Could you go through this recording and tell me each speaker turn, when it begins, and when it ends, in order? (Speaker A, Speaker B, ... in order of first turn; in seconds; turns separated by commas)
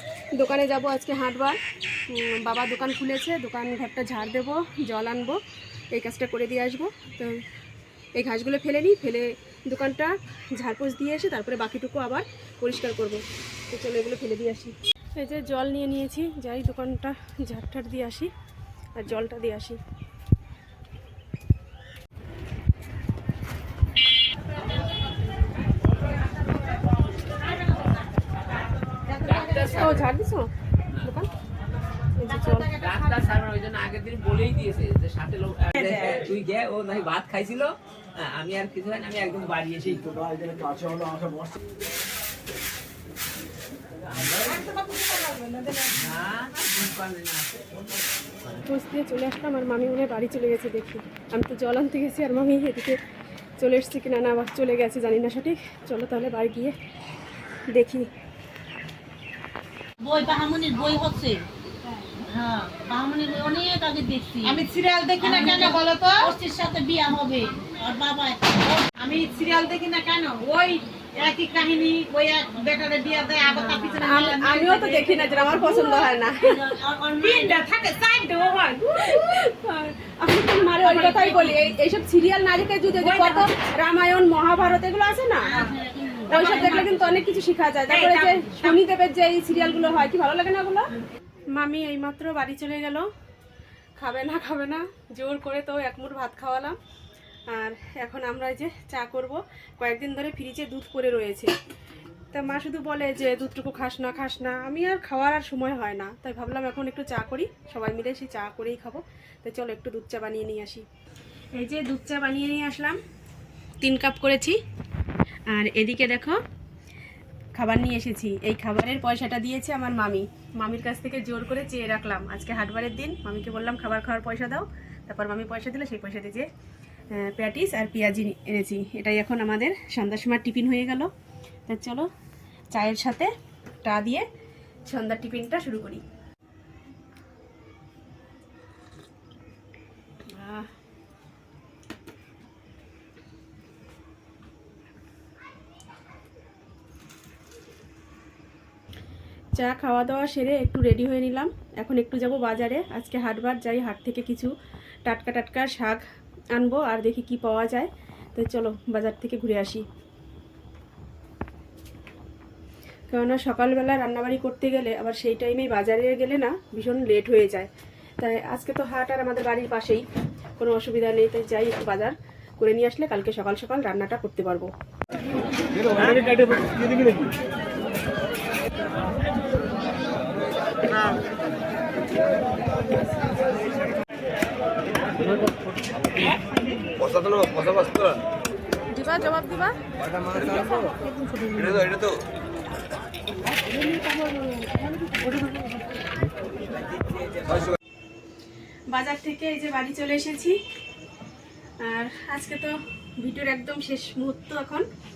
Speaker A: 0.4-5.4, Speaker A: 5.9-7.3, Speaker A: 8.2-18.3, Speaker A: 19.0-19.8, Speaker B: 29.2-30.0, Speaker A: 29.5-30.5, Speaker A: 31.0-31.3, Speaker A: 32.1-32.8, Speaker B: 32.8-40.2, Speaker B: 44.1-44.6, Speaker C: 45.1-45.9, Speaker B: 45.9-48.0, Speaker A: 48.6-53.0, Speaker A: 53.6-56.8, Speaker A: 57.7-58.1, Speaker D: 60.0-61.4, Speaker D: 62.3-64.6, Speaker C: 64.4-66.3, Speaker D: 65.2-68.9, Speaker C: 69.0-75.1, Speaker D: 71.2-71.5, Speaker D: 72.4-74.0, Speaker A: 74.0-76.7, Speaker D: 75.6-77.6, Speaker C: 77.2-78.8, Speaker A: 78.8-85.7, Speaker D: 81.1-81.6, Speaker D: 85.5-86.9, Speaker A: 86.3-90.9, Speaker A: 91.5-93.0, Speaker A: 94.0-96.8, Speaker A: 97.5-101.5, Speaker A: 102.3-110.8, Speaker A: 111.5-113.0, Speaker A: 113.8-114.6, Speaker A: 115.5-116.4, Speaker A: 117.5-126.5, Speaker A: 127.1-131.1, Speaker A: 131.7-132.1, Speaker A: 132.7-133.3, Speaker A: 133.8-134.2, Speaker A: 134.9-136.0, Speaker A: 140.3-140.7, Speaker A: 149.6-154.5, Speaker A: 155.0-156.0, Speaker A: 156.5-159.8, Speaker A: 163.1-167.7, Speaker A: 168.2-170.0, Speaker A: 170.6-174.7, Speaker A: 188.9-189.7, Speaker A: 198.9-200.6, Speaker A: 201.8-204.8